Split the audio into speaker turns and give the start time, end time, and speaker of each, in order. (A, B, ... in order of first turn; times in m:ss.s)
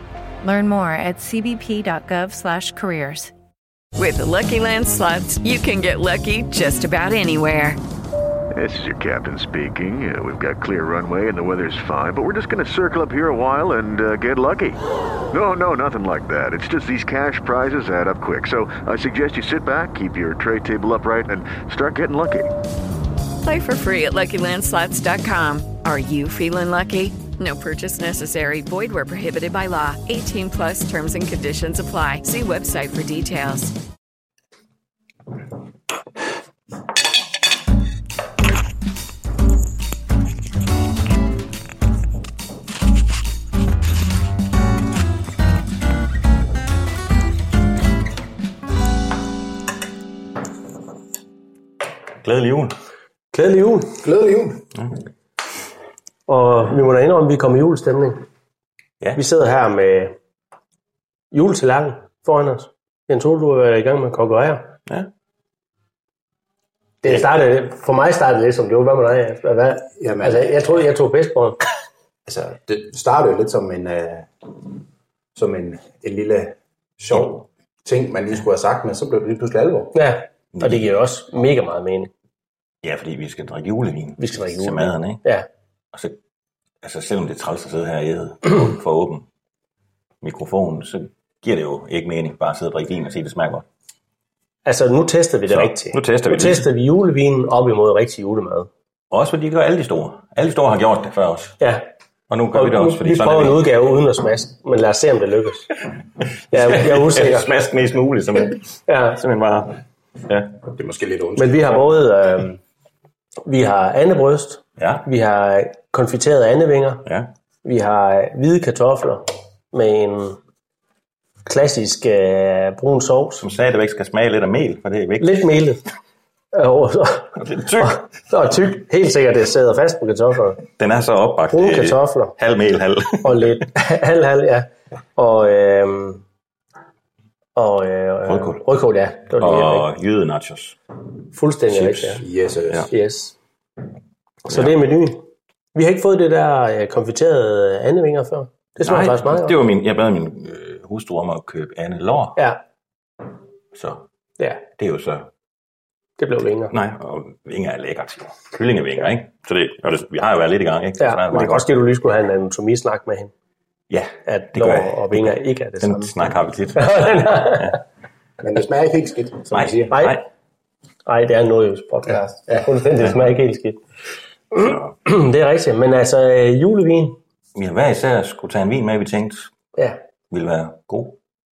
0:00.4-0:03.3 A
0:04.0-0:07.8 B
0:08.5-0:22.5 C
0:23.4-0:33.7 B
0:52.2-0:52.7 D
0:53.3-0:54.0 E
0:54.0-0:54.7 F
0:56.3-0:58.2 E
0:59.1-1:00.1 E
1:01.3-1:04.7 E
1:07.0-1:11.6 E
1:10.0-1:10.7 F
1:12.2-1:14.3 F
1:15.3-1:20.0 F
1:19.9-1:22.1 E
1:20.5-1:20.9 D
1:22.8-1:25.2 D
1:24.2-1:25.4 E
1:25.9-1:26.2 D
1:26.8-1:29.2 D
1:30.2-1:33.6 D
1:34.6-1:38.7 E
1:35.5-1:36.7 D
1:39.1-1:41.6 D
1:41.6-1:41.8 E
1:42.3-1:43.6 D
1:42.5-1:45.7 E
1:46.5-1:50.6 D
1:46.5-1:47.5 E
1:48.9-1:49.2 E
1:50.7-1:51.8 F
1:51.4-1:52.6 E
1:53.4-1:57.0 E
1:54.8-1:55.0 D
1:57.0-1:57.3 D
1:57.6-2:00.4 E
2:01.4-2:03.4 E
2:03.4-2:05.5 D
2:05.2-2:05.8 E
2:06.5-2:10.6 E
2:07.4-2:08.0 D
2:10.8-2:13.6 D
2:11.5-2:12.4 E
2:13.2-2:16.2 E
2:17.6-2:19.9 E
2:18.2-2:18.6 D
2:19.4-2:20.8 D
2:21.3-2:22.2 E
2:21.7-2:22.9 D
2:22.2-2:22.9 F
2:22.9-2:23.3 E
2:24.4-2:29.6 E
2:24.5-2:24.7 D
2:28.8-2:32.4 D
2:33.7-2:34.0 D
2:34.7-2:35.3 D
2:36.2-2:36.7 E
2:36.7-2:41.7 D
2:41.0-2:43.3 E
2:43.9-2:47.8 D
2:44.2-2:46.1 E
2:46.8-2:47.7 E
2:48.4-2:50.1 F
2:49.5-2:50.2 D
2:49.9-2:50.2 E
2:51.0-2:53.8 E
2:54.5-2:57.2 E
2:54.6-2:54.9 D
2:57.5-2:59.5 D
3:00.3-3:01.2 D